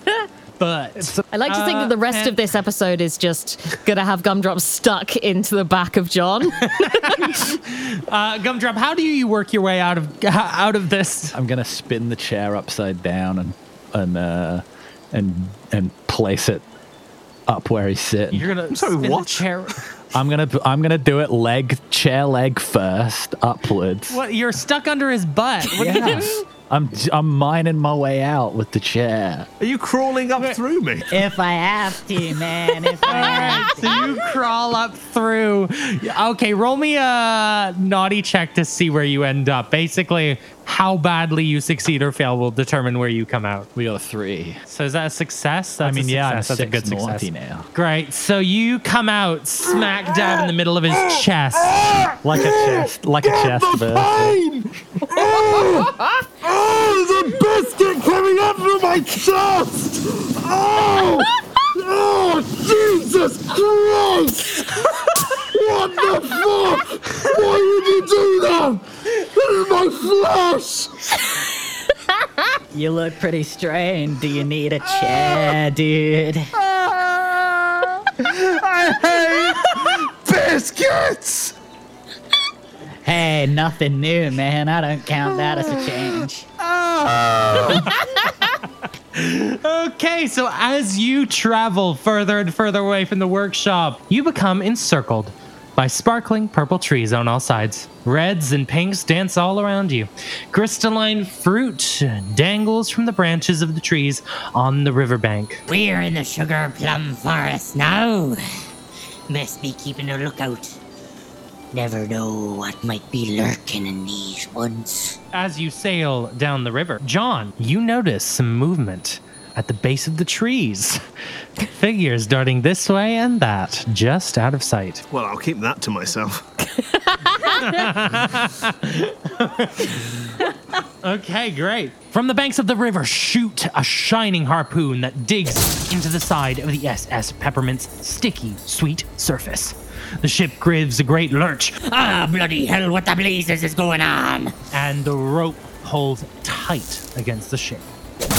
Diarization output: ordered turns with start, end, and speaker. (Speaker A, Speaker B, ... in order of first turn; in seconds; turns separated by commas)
Speaker A: 0.6-2.4, Speaker B: 1.3-7.2, Speaker A: 6.7-11.3, Speaker C: 11.3-16.6, Speaker C: 17.5-18.5, Speaker A: 18.3-19.8, Speaker D: 18.7-19.5, Speaker C: 20.1-24.2, Speaker A: 24.1-26.4, Speaker C: 25.7-29.5, Speaker D: 29.6-31.1, Speaker E: 31.1-34.1, Speaker A: 33.0-43.7, Speaker C: 43.7-44.6, Speaker A: 44.7-51.8, Speaker C: 45.8-47.7, Speaker F: 49.7-70.9, Speaker C: 52.2-54.4, Speaker E: 72.7-76.5, Speaker F: 76.7-81.5, Speaker E: 83.0-86.5, Speaker F: 86.6-87.9, Speaker A: 87.7-88.6, Speaker A: 89.1-105.6, Speaker G: 105.8-108.3, Speaker G: 109.3-110.7, Speaker G: 111.7-115.0, Speaker A: 115.3-121.0, Speaker A: 121.6-125.0, Speaker D: 125.1-126.4, Speaker A: 127.5-130.3, Speaker A: 131.0-141.8, Speaker G: 142.6-143.1, Speaker G: 143.7-144.0, Speaker A: 144.7-147.9